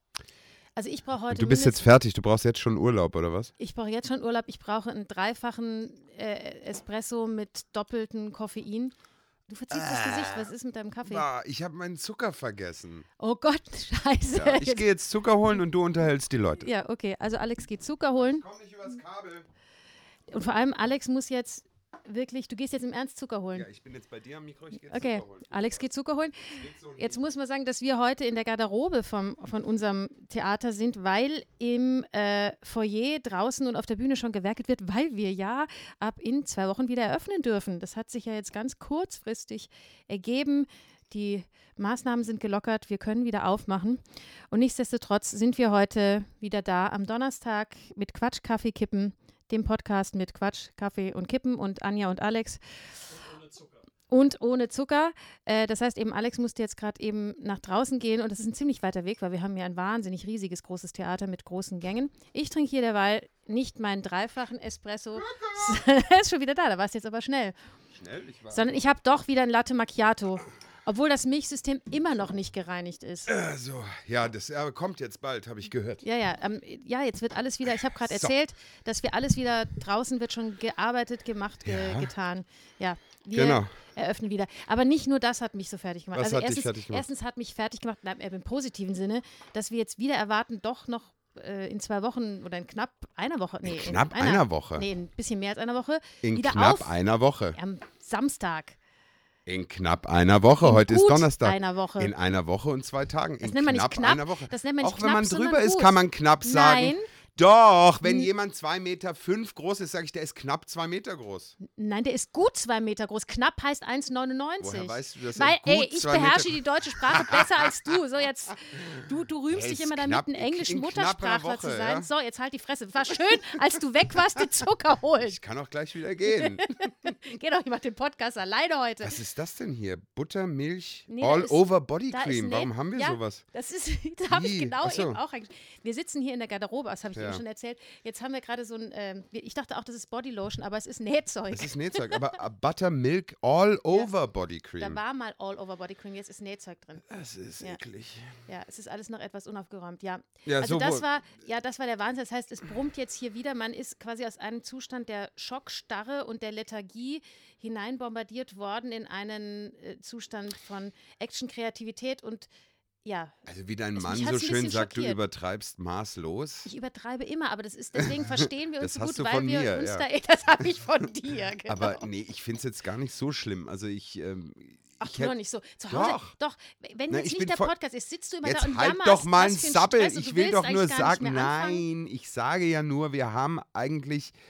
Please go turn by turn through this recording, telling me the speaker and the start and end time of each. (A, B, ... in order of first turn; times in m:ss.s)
0:00.8-0:01.8 A
0:01.3-0:03.5 B
0:03.6-0:08.9 A
0:09.5-0:11.2 A
0:09.7-0:10.5 B
0:11.0-0:13.0 B
0:13.2-0:14.9 A
0:14.3-0:16.7 B
0:16.6-0:18.4 A
0:18.2-0:19.5 B
0:20.3-0:23.7 A
0:23.5-0:25.8 B
0:24.8-0:52.6 A
0:26.4-0:27.2 B
0:54.1-1:07.5 A
1:07.9-1:08.7 B
1:08.5-1:13.3 A
1:13.3-1:16.0 B
1:16.0-1:37.0 A
1:18.0-1:18.3 B
1:21.6-1:22.1 B
1:23.3-1:23.7 B
1:26.1-1:27.0 B
1:33.6-1:34.9 B
1:36.2-1:37.6 B
1:37.5-1:38.8 A
1:39.4-1:51.6 B
1:40.6-1:42.1 A
1:43.4-1:47.1 A
1:51.6-2:05.4 A
1:54.6-1:57.7 B
1:59.5-2:02.1 B
2:05.2-2:07.1 B
2:06.3-2:09.1 A
2:09.0-2:13.4 B
2:11.1-2:22.2 A
2:14.3-2:15.2 B
2:17.1-2:17.4 B
2:21.5-2:25.0 B
2:24.8-2:27.1 A
2:27.0-2:28.4 B
2:28.5-2:42.5 A
2:30.4-2:31.0 B
2:43.0-2:43.4 A
2:43.4-2:46.7 B
2:44.0-2:45.2 A
2:46.6-2:52.0 A
2:48.0-2:50.0 B
2:51.7-2:55.3 B
2:55.0-3:01.8 A
2:55.9-2:56.3 B
2:57.1-2:57.7 B
2:58.4-3:04.3 B